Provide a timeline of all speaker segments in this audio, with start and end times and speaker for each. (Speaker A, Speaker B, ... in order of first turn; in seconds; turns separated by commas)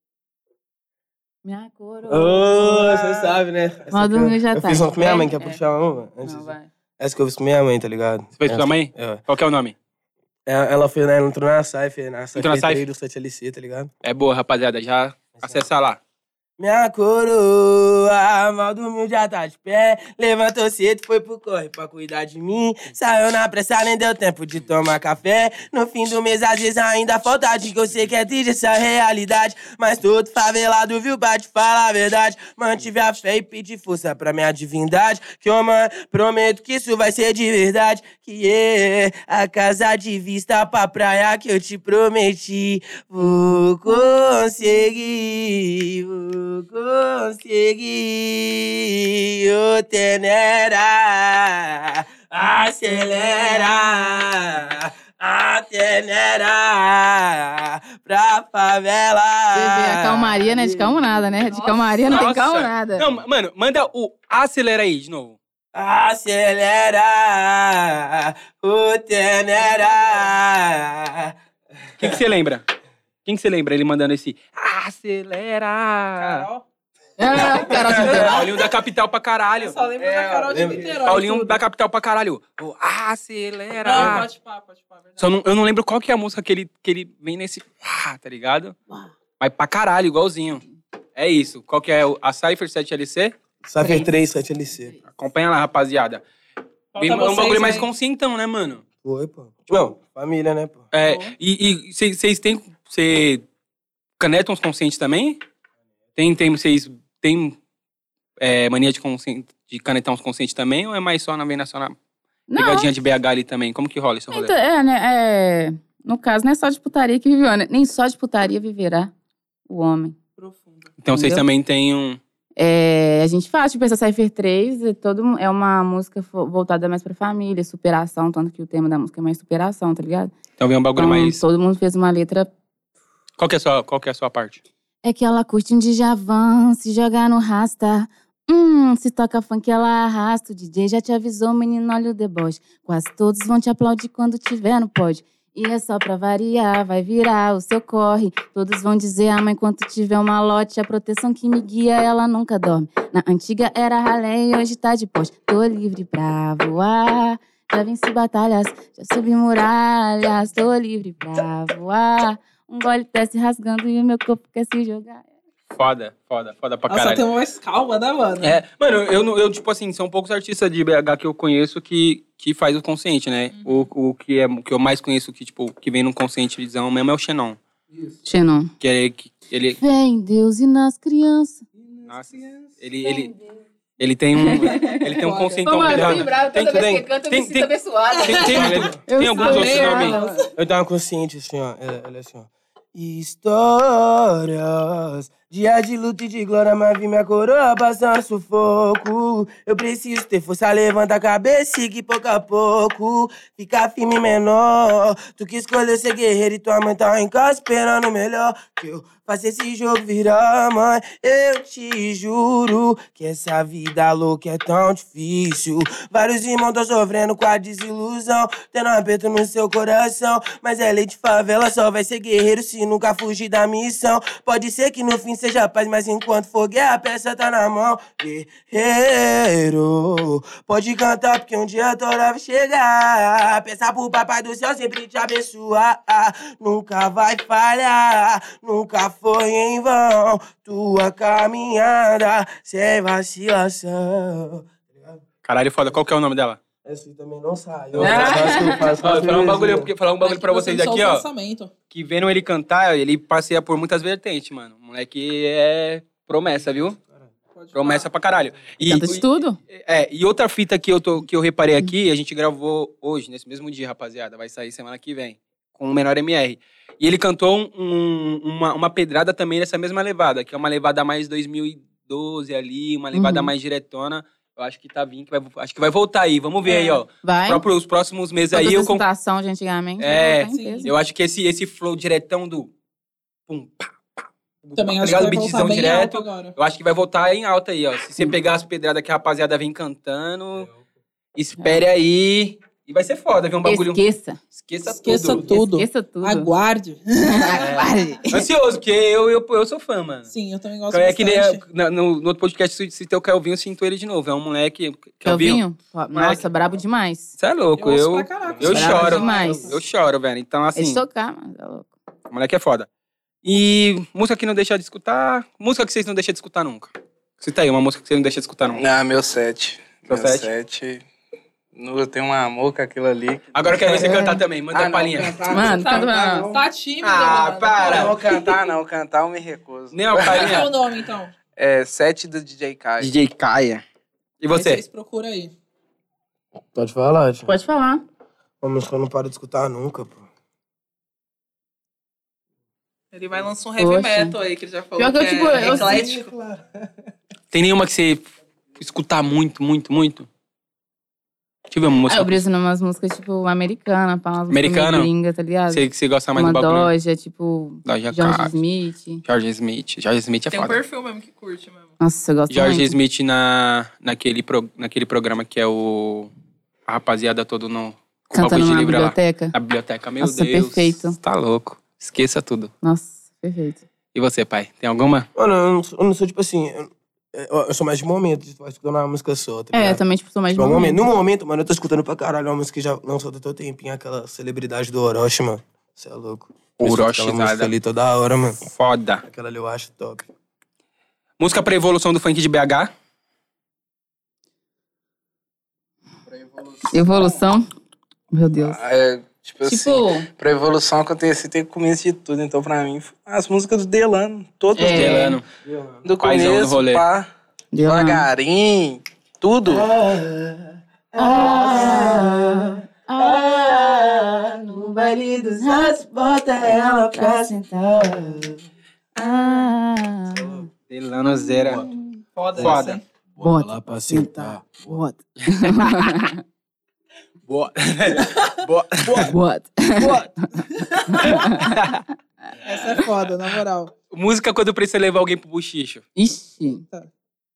Speaker A: 1.4-3.4, Speaker B: 2.1-9.2, Speaker A: 3.9-5.6, Speaker A: 6.2-6.7, Speaker C: 8.4-9.8, Speaker B: 10.5-13.9, Speaker C: 12.4-12.8, Speaker C: 14.0-16.0, Speaker B: 16.6-61.9, Speaker A: 59.5-63.0, Speaker C: 62.1-65.4, Speaker B: 65.7-71.3, Speaker B: 71.9-72.2, Speaker C: 72.0-72.6, Speaker C: 73.2-76.5, Speaker D: 76.2-76.7, Speaker A: 77.2-78.5, Speaker B: 77.5-78.2, Speaker C: 77.7-79.8, Speaker D: 77.8-78.4, Speaker D: 79.6-81.6, Speaker B: 80.0-81.1, Speaker C: 81.0-84.3, Speaker D: 83.8-85.4, Speaker B: 83.9-84.2, Speaker C: 85.2-88.8, Speaker C: 89.4-90.6, Speaker C: 91.2-93.3, Speaker B: 93.7-95.0, Speaker A: 93.8-94.1, Speaker C: 95.1-96.2, Speaker D: 96.9-97.9, Speaker C: 97.0-98.8, Speaker B: 99.0-100.9, Speaker C: 100.9-103.4, Speaker D: 101.0-101.3, Speaker C: 104.2-105.4, Speaker C: 106.2-107.6, Speaker C: 108.4-112.0, Speaker A: 112.5-112.9, Speaker C: 112.5-114.5, Speaker A: 114.3-119.1, Speaker A: 119.7-120.2, Speaker D: 120.4-120.9, Speaker C: 121.0-122.2, Speaker A: 121.1-121.4, Speaker A: 122.6-130.3, Speaker C: 130.6-131.4, Speaker A: 131.0-132.5, Speaker C: 133.4-134.6, Speaker A: 135.0-165.2, Speaker C: 165.7-167.2, Speaker D: 166.9-168.6, Speaker C: 168.4-177.6, Speaker D: 173.5-173.9, Speaker A: 178.2-178.7, Speaker C: 178.8-179.8, Speaker A: 179.8-181.7, Speaker C: 182.1-183.3, Speaker C: 184.0-190.2, Speaker A: 184.3-185.1, Speaker D: 184.6-186.3, Speaker A: 185.6-190.5, Speaker B: 186.7-187.0, Speaker D: 188.1-190.5, Speaker B: 188.5-189.0, Speaker B: 190.5-245.2, Speaker C: 245.4-246.6, Speaker B: 246.8-249.9, Speaker C: 247.9-251.3, Speaker A: 248.0-248.9, Speaker D: 250.2-251.7, Speaker C: 251.9-257.0, Speaker D: 257.6-258.1, Speaker C: 257.8-279.0, Speaker A: 258.8-259.6, Speaker A: 273.1-273.5, Speaker A: 276.7-277.6, Speaker A: 278.5-280.9, Speaker C: 280.0-282.7, Speaker D: 280.5-280.9, Speaker C: 283.5-290.7, Speaker D: 284.8-286.6, Speaker C: 291.4-294.0, Speaker A: 291.6-291.8, Speaker A: 293.6-294.4, Speaker C: 294.5-295.5, Speaker D: 294.9-297.7, Speaker A: 295.5-296.5, Speaker A: 297.2-298.5, Speaker C: 297.5-300.3, Speaker D: 300.3-301.6, Speaker C: 300.9-306.5, Speaker A: 305.2-307.4, Speaker C: 307.4-311.0, Speaker D: 307.8-309.7, Speaker A: 308.6-309.8, Speaker B: 309.2-309.7, Speaker A: 310.8-311.9, Speaker C: 312.3-312.9, Speaker C: 313.4-318.8, Speaker E: 318.8-321.0, Speaker C: 320.1-320.5, Speaker E: 321.8-326.6, Speaker C: 323.6-325.4, Speaker A: 323.9-324.4, Speaker A: 325.5-326.5, Speaker D: 325.6-328.5, Speaker C: 327.0-328.4, Speaker E: 327.8-330.6, Speaker C: 329.9-330.8, Speaker D: 330.2-331.3, Speaker E: 331.6-333.1, Speaker C: 333.0-333.8, Speaker C: 334.4-334.8, Speaker D: 334.5-335.5, Speaker B: 336.7-337.5, Speaker A: 337.5-338.0, Speaker B: 338.6-340.2, Speaker D: 343.1-346.3, Speaker A: 343.8-344.4, Speaker A: 345.0-346.1, Speaker B: 345.8-346.5, Speaker C: 347.5-348.2, Speaker C: 348.8-350.3, Speaker C: 351.7-352.4, Speaker A: 352.1-359.2, Speaker C: 354.5-355.1, Speaker C: 355.7-356.9, Speaker C: 357.9-358.5, Speaker C: 359.2-360.8, Speaker D: 360.5-361.9, Speaker A: 362.0-363.0, Speaker C: 362.5-366.3, Speaker C: 366.9-372.7, Speaker A: 368.3-369.5, Speaker A: 370.2-371.2, Speaker A: 372.8-373.8, Speaker C: 374.1-375.3, Speaker B: 375.4-380.0, Speaker A: 379.7-381.1, Speaker B: 380.6-388.7, Speaker C: 386.8-387.7, Speaker C: 388.6-389.2, Speaker B: 389.3-390.3, Speaker C: 391.4-392.9, Speaker E: 396.3-397.4, Speaker A: 396.9-397.7, Speaker A: 398.3-398.8, Speaker E: 398.6-405.3, Speaker A: 399.7-400.3, Speaker A: 404.8-405.4, Speaker C: 404.8-405.4, Speaker B: 405.6-406.0, Speaker E: 406.0-407.3, Speaker C: 406.2-407.0, Speaker A: 407.7-408.3, Speaker E: 407.8-409.9, Speaker B: 409.7-418.6, Speaker A: 411.2-416.0, Speaker A: 416.7-418.3, Speaker A: 419.2-420.7, Speaker C: 420.9-421.9, Speaker D: 422.4-423.0, Speaker C: 422.6-423.0, Speaker B: 423.4-425.0, Speaker A: 423.4-426.4, Speaker C: 425.5-425.8, Speaker C: 427.5-429.3, Speaker A: 429.2-432.0, Speaker D: 430.6-431.5, Speaker C: 431.3-432.0, Speaker D: 432.6-433.9, Speaker C: 434.1-436.1, Speaker A: 436.2-436.8, Speaker D: 436.7-437.1